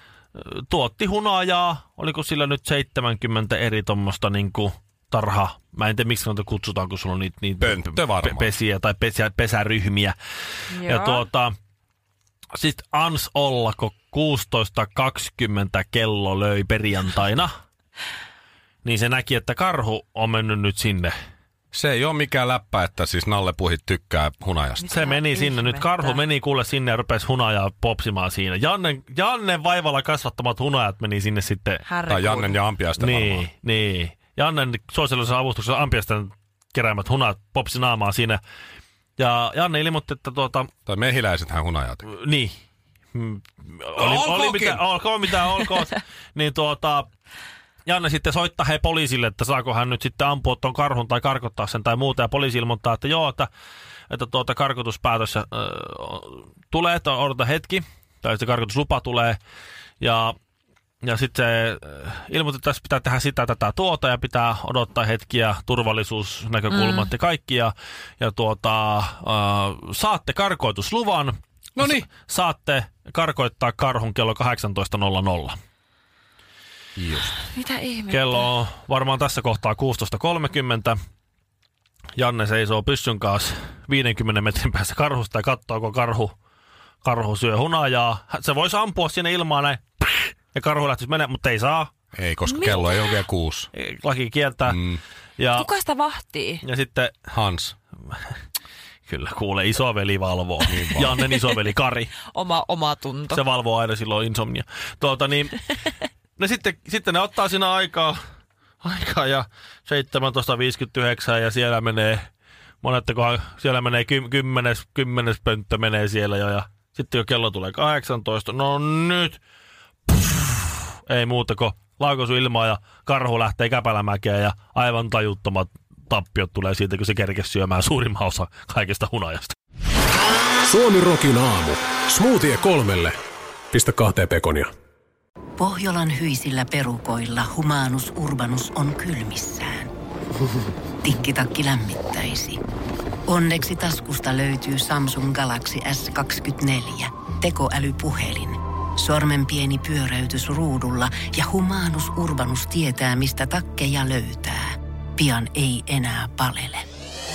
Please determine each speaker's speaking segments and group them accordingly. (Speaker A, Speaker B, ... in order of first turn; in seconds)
Speaker A: 0.4-10.2, 10.8-11.6, 12.6-17.5, 18.8-21.1, 24.9-31.8, 33.0-38.4, 39.2-40.7, 42.1-42.6, 43.1-47.1, 47.9-53.5, 54.1-59.4, 60.0-60.4, 61.0-75.6, 78.1-81.0, 82.2-86.3, 87.0-91.9, 93.7-94.8, 95.4-95.7, 96.6-97.3, 99.1-102.2, 103.3-105.6, 106.4-108.2, 108.8-112.3, 112.8-119.4, 120.1-129.6
Speaker B: 7.6-8.5, 21.7-24.9, 32.1-33.5, 40.9-42.1, 44.0-44.8, 71.8-72.1, 77.0-77.3, 92.1-93.7, 94.7-95.0, 97.3-97.8, 100.7-101.2
Speaker C: 10.7-11.3, 24.8-26.2, 31.9-32.6, 66.7-67.1, 77.5-78.5, 92.5-93.2, 95.5-96.6, 102.3-103.4
Speaker D: 130.7-133.1, 133.7-134.7
Speaker E: 135.6-139.9, 141.0-142.6, 143.3-156.8